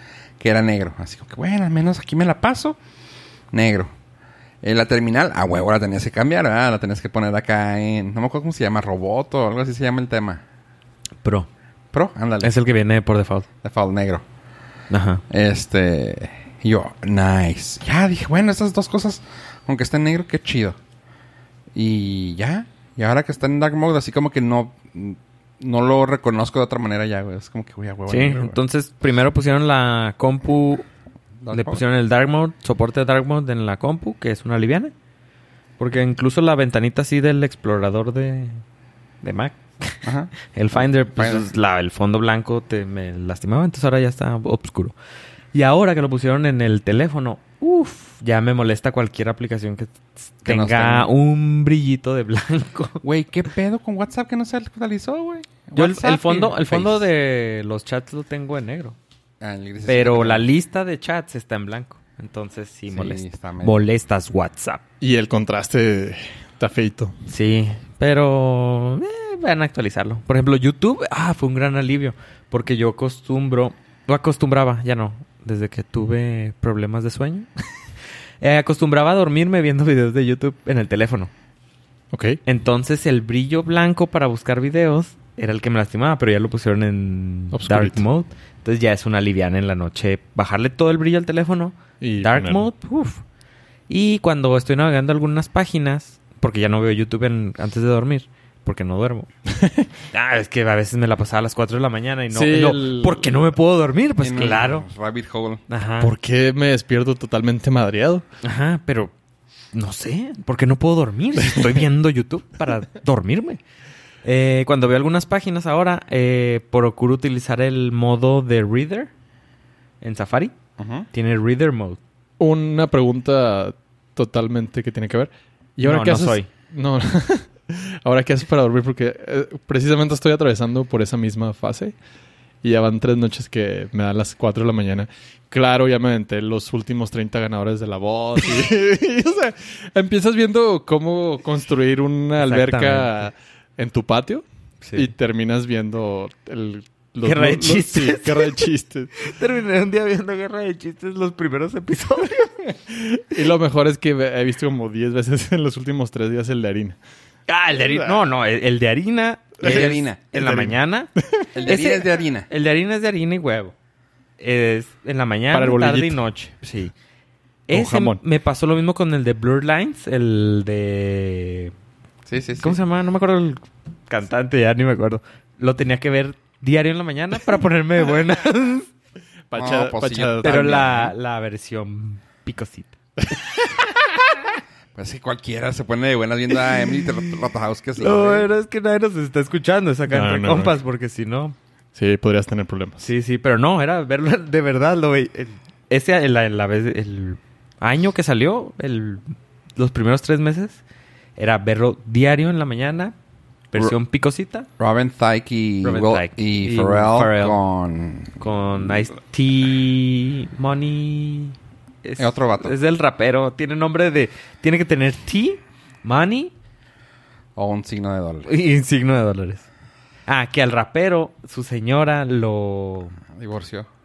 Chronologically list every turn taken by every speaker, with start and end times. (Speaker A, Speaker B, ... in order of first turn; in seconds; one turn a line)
Speaker A: 0.4-2.8
Speaker A: 3.5-3.9
Speaker A: 4.6-10.4
Speaker B: 11.2-11.5
Speaker A: 11.9-12.5
Speaker B: 12.4-13.4
Speaker A: 13.6-14.2
Speaker B: 14.9-15.2
Speaker A: 15.3-20.8
Speaker A: 21.7-28.6
Speaker B: 28.1-30.8
Speaker A: 31.4-31.8
Speaker B: 31.5-34.9
Speaker B: 35.8-38.6
Speaker B: 39.2-44.9
Speaker A: 40.0-41.5
Speaker B: 45.5-53.0
Speaker A: 50.4-51.1
Speaker A: 53.0-57.1
Speaker B: 55.7-59.0
Speaker A: 59.4-60.5
Speaker B: 59.9-64.8
Speaker A: 62.9-63.8
Speaker C: 65.0-67.1
Speaker B: 67.3-77.5
Speaker B: 78.4-81.3
Speaker C: 82.1-82.4
Speaker B: 82.4-93.2
Speaker C: 87.5-88.0
Speaker C: 92.0-92.7
Speaker B: 93.9-99.3
Speaker C: 99.6-99.9
Speaker B: 100.1-104.8
Speaker C: 102.3-103.5
Speaker A: 104.2-105.6
Speaker B: 105.7-106.1
Speaker C: 106.0-108.2
Speaker B: 108.4-109.1
Speaker B: 109.7-113.6
Speaker C: 111.4-111.8
Speaker B: 114.2-119.1
Speaker B: 120.0-120.5
Speaker A: 120.8-121.1
Speaker B: 121.1-122.0
Speaker C: 122.4-131.9
Speaker B: 125.8-126.5
Speaker C: 132.6-149.1
Speaker B: 142.4-143.3
Speaker B: 144.8-145.1
Speaker B: 147.2-148.6
Speaker B: 149.2-152.6
Speaker C: 152.9-156.9
Speaker B: 157.5-163.7
Speaker C: 157.8-158.2
Speaker A: 159.6-160.7
Speaker C: 159.6-159.9
Speaker A: 161.5-162.5
Speaker B: 164.4-166.9
Speaker C: 165.5-166.2
Speaker B: 167.7-171.7
Speaker C: 167.7-168.2
Speaker A: 172.2-172.8
Speaker B: 172.6-178.9
Speaker C: 179.5-181.1
Speaker A: 179.5-180.8
Speaker B: 180.4-182.9
Speaker A: 184.9-188.5
Speaker B: 188.0-191.5
Speaker C: 190.1-190.8
Speaker C: 191.9-193.0
Speaker B: 193.0-200.8
Speaker B: 201.4-203.1
Speaker B: 203.7-204.7
Speaker A: 204.8-208.3
Speaker B: 205.8-207.6
Speaker B: 208.4-216.5
Speaker A: 212.2-212.7
Speaker A: 217.6-218.5
Speaker B: 218.4-219.6
Speaker B: 220.3-223.2
Speaker A: 223.3-223.9